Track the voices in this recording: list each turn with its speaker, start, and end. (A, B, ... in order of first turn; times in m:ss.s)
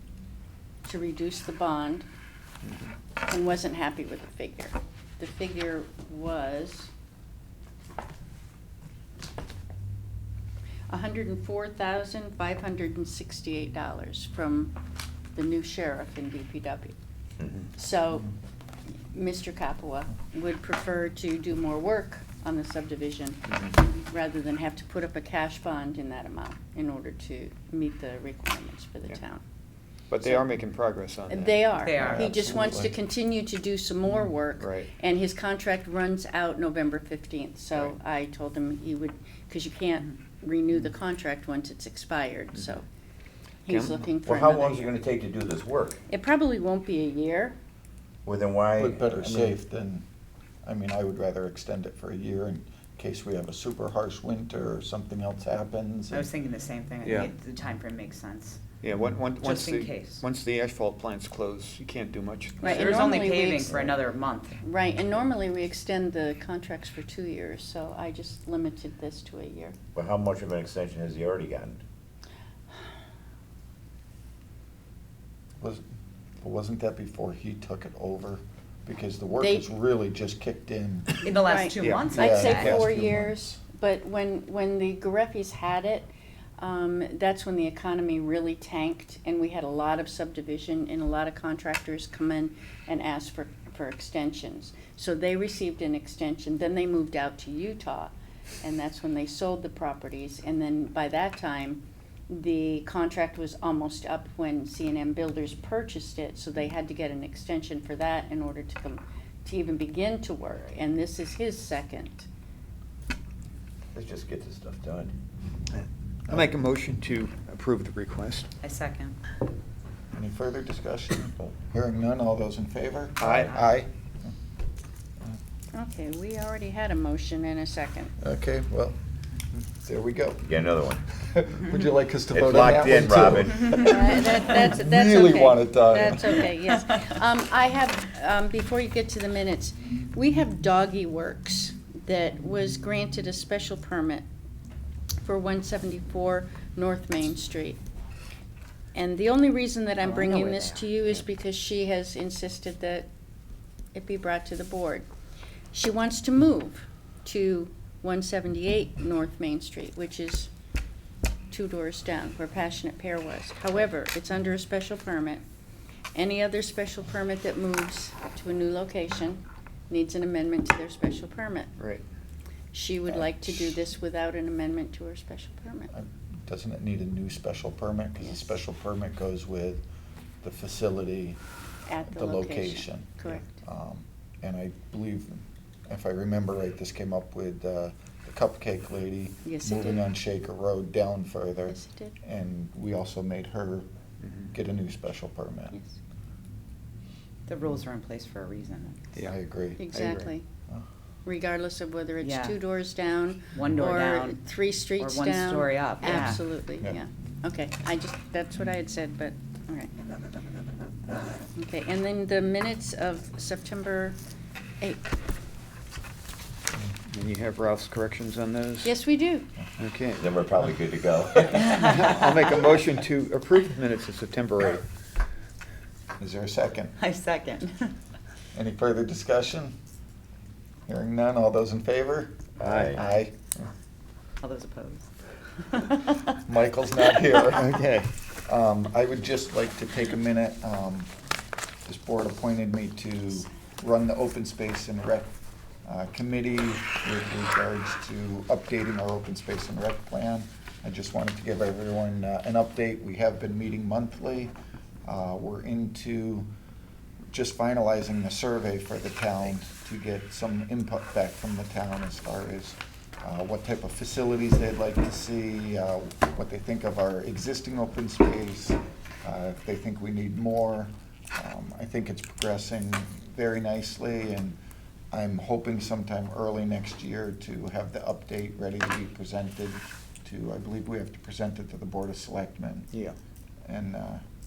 0:00.8-0:02.0 A
0:03.3-0:06.9 A
0:10.9-0:14.7 A
0:15.3-0:16.9 A
0:17.7-0:18.3 A
0:19.1-0:29.4 A
0:30.1-0:31.7 B
0:31.3-0:42.8 A
0:31.8-0:32.3 C
0:32.0-0:33.0 D
0:34.6-0:34.9 B
0:43.6-0:44.9 A
0:43.7-0:44.1 B
0:44.2-0:46.0 E
0:46.1-0:47.5 A
0:48.2-0:49.5 E
0:48.8-0:50.0 D
0:50.6-0:56.3 D
0:56.1-0:58.6 C
0:57.0-0:57.3 B
0:58.8-1:03.1 B
0:59.4-1:00.2 C
1:02.6-1:03.9 A
1:02.6-1:04.6 C
1:04.6-1:09.8 A
1:09.9-1:11.8 E
1:16.4-1:21.2 D
1:19.4-1:19.7 A
1:21.2-1:22.7 C
1:21.4-1:52.3 A
1:21.8-1:22.7 B
1:22.1-1:23.5 D
1:53.9-1:55.1 E
1:55.7-1:58.5 B
1:58.6-1:59.2 C
2:00.1-2:04.3 D
2:03.2-2:03.5 E
2:03.2-2:03.6 B
2:05.7-2:08.1 A
2:08.2-2:09.0 D
2:09.5-2:10.5 D
2:10.4-2:11.0 E
2:11.2-2:16.5 D
2:12.3-2:13.8 E
2:13.7-2:24.2 A
2:25.2-2:27.8 A
2:28.9-2:33.1 A
2:30.0-2:30.9 C
2:33.9-2:35.1 A
2:35.7-2:40.5 A
2:41.5-2:45.4 A
2:46.1-2:51.7 A
2:51.8-2:52.0 B
2:52.7-2:55.9 A
2:53.1-2:53.8 D
2:55.9-2:59.8 D
3:00.4-3:01.4 D
3:01.9-3:03.5 A
3:02.1-3:13.9 D
3:09.4-3:10.0 A
3:11.7-3:12.1 A
3:14.5-3:15.8 D
3:17.4-3:19.0 C
3:19.2-3:19.8 D
3:19.8-3:20.4 A
3:19.9-3:20.3 B
3:21.2-3:29.9 A
3:22.2-3:22.6 C
3:23.5-3:26.4 C
3:31.6-3:34.2 A
3:34.8-3:35.0 A
3:37.1-3:38.9 B
3:38.8-3:39.5 A
3:39.8-3:40.7 B
3:40.2-3:41.8 E
3:41.4-3:44.8 B
3:46.2-3:47.0 D
3:47.0-3:47.9 C
3:48.5-3:49.7 D
3:50.9-3:53.4 D
3:52.6-3:53.0 E
3:52.6-3:53.0 B
3:54.4-3:56.3 C
3:56.4-3:57.8 D
3:57.6-3:58.1 B
3:58.4-4:01.1 D
4:01.8-4:05.3 D
4:05.8-4:14.5 D
4:15.0-4:16.5 D
4:17.3-4:34.6 D
4:35.1-4:42.9 D
4:43.6-4:44.2 D